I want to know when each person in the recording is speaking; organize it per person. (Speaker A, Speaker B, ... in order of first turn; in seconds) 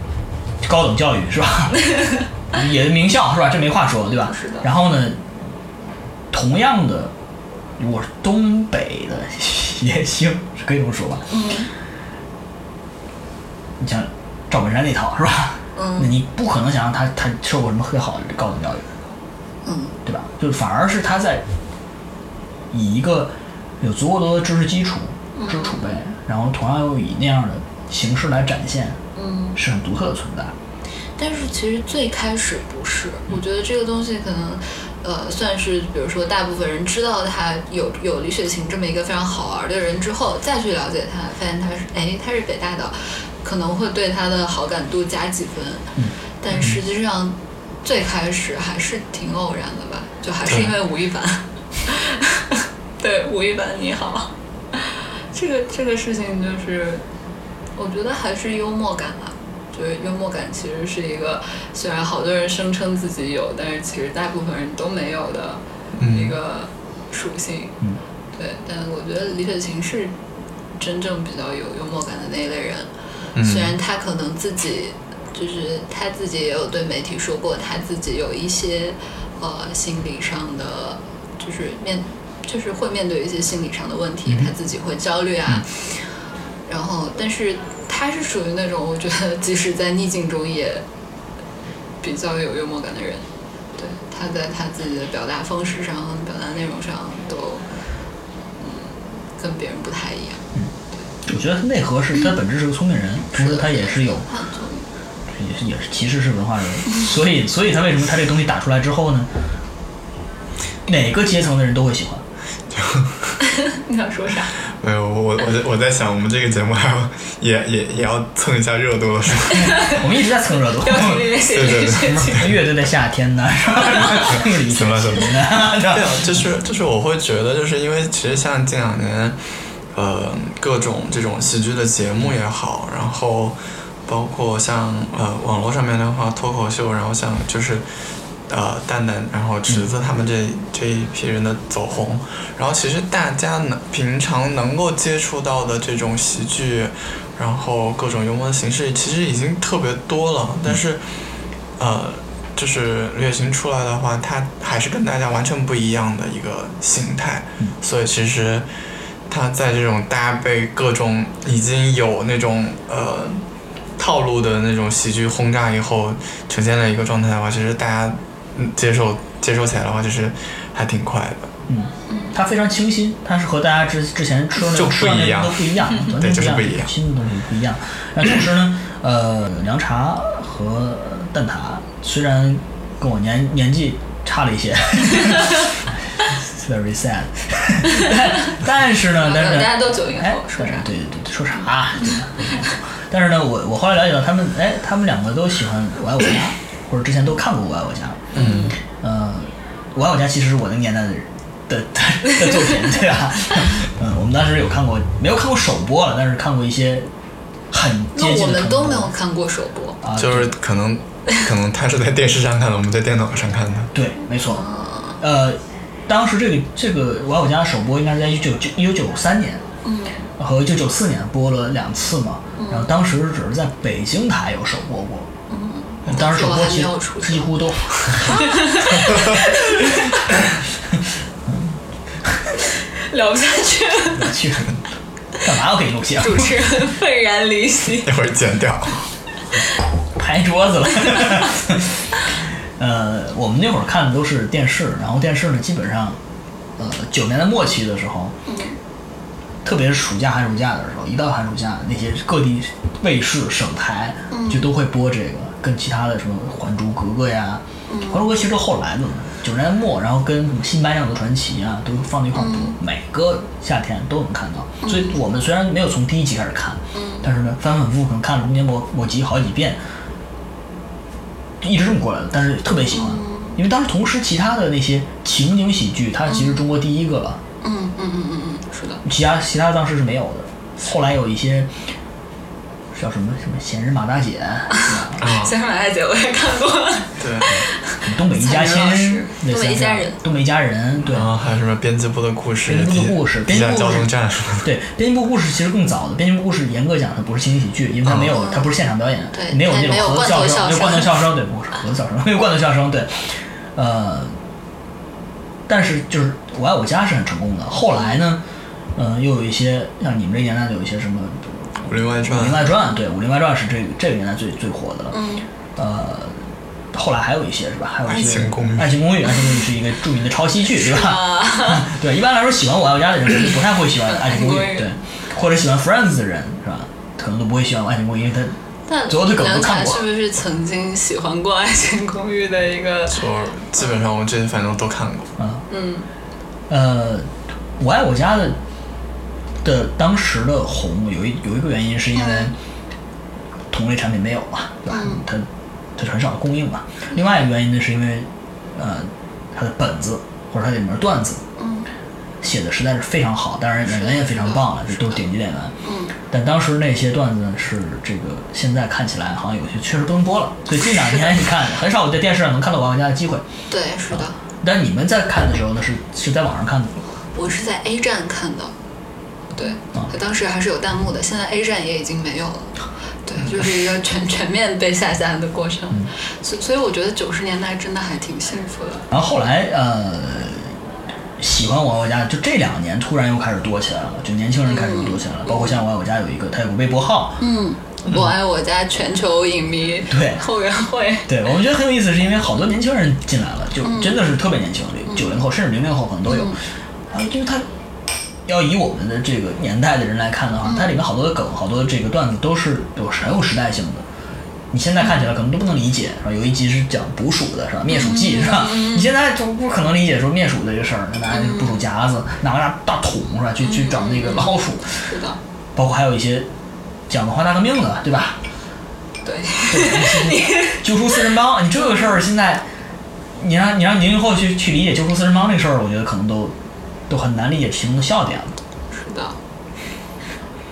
Speaker A: 0.6-1.9, 2.5-5.2, 6.3-7.1, 7.8-11.3, 13.8-18.9, 20.1-21.5, 22.7-29.0, 29.6-30.6, 101.3-104.2, 105.3-109.3, 110.9-112.2, 119.9-121.3, 122.0-126.3, 171.7-207.1, 207.7-209.1, 210.0-210.5, 213.9-219.6, 220.4-225.3, 226.1-229.9, 231.5-232.4, 234.1-234.8, 235.4-236.6, 240.2-242.1, 242.8-246.2, 246.8-248.4, 249.6-269.8, 271.6-277.4, 279.1-281.7, 282.9-285.2, 287.5-291.3, 292.7-294.1, 294.6-304.3, 305.7-308.4, 309.0-315.2, 315.8-316.4, 316.9-328.6, 329.1-330.1, 335.4-335.6, 336.7-338.6, 339.6-342.5, 343.7-351.4, 352.4-355.7, 356.3-363.5, 364.1-367.0, 379.1-380.7, 381.4-387.4, 390.1-390.4, 391.3-396.6, 397.1-397.7, 398.4-404.1, 404.7-415.0, 415.8-416.5, 417.1-418.4, 419.7-422.7, 423.4-426.6, 427.1-428.6
Speaker B: 4.0-4.7, 11.3-11.7, 15.8-16.1, 19.6-20.0, 25.4-26.0, 29.1-29.6, 31.2-57.0, 57.8-67.8, 68.3-70.1, 70.8-72.9, 73.4-86.1, 86.7-90.8, 92.0-93.2, 93.8-97.7, 98.6-100.4, 103.3-104.9, 113.6-114.5, 119.6-120.0, 120.7-122.5, 188.0-188.5, 189.2-190.9, 198.3-198.8, 208.2-210.0, 214.5-215.2, 219.8-220.2, 222.6-222.9, 225.5-227.5, 228.1-230.2, 233.1-234.3, 236.2-238.1, 248.5-248.8, 254.3-254.7, 257.9-258.2, 262.4-262.8, 264.8-265.2, 266.9-267.3, 272.9-273.6, 276.3-276.6, 277.6-279.0, 284.8-290.2, 298.4-298.7, 299.3-301.3, 307.9-308.2, 315.1-315.5, 320.7-321.9, 324.0-324.9, 328.9-333.2, 335.7-336.1, 342.1-342.5, 344.9-345.2, 351.6-351.9, 353.9-355.2, 355.8-356.1, 363.7-364.4, 367.4-368.7, 369.5-379.1, 384.7-385.8, 387.4-391.3, 393.8-394.2, 395.1-395.4, 396.3-396.6, 400.6-400.9, 407.9-409.1, 411.3-411.9, 413.6-415.4, 419.2-422.2, 428.9-429.4
Speaker C: 66.0-66.3, 73.4-73.8, 112.7-113.4, 114.8-119.8, 121.5-122.6, 124.7-129.4, 129.9-137.8, 138.5-151.0, 151.8-158.7, 159.3-163.4, 164.0-171.5, 174.6-176.9, 198.3-198.7, 210.2-213.9, 238.0-239.1, 285.2-285.5, 287.2-287.6, 291.1-294.7, 298.1-298.3, 311.9-312.7, 318.1-319.1, 333.1-335.3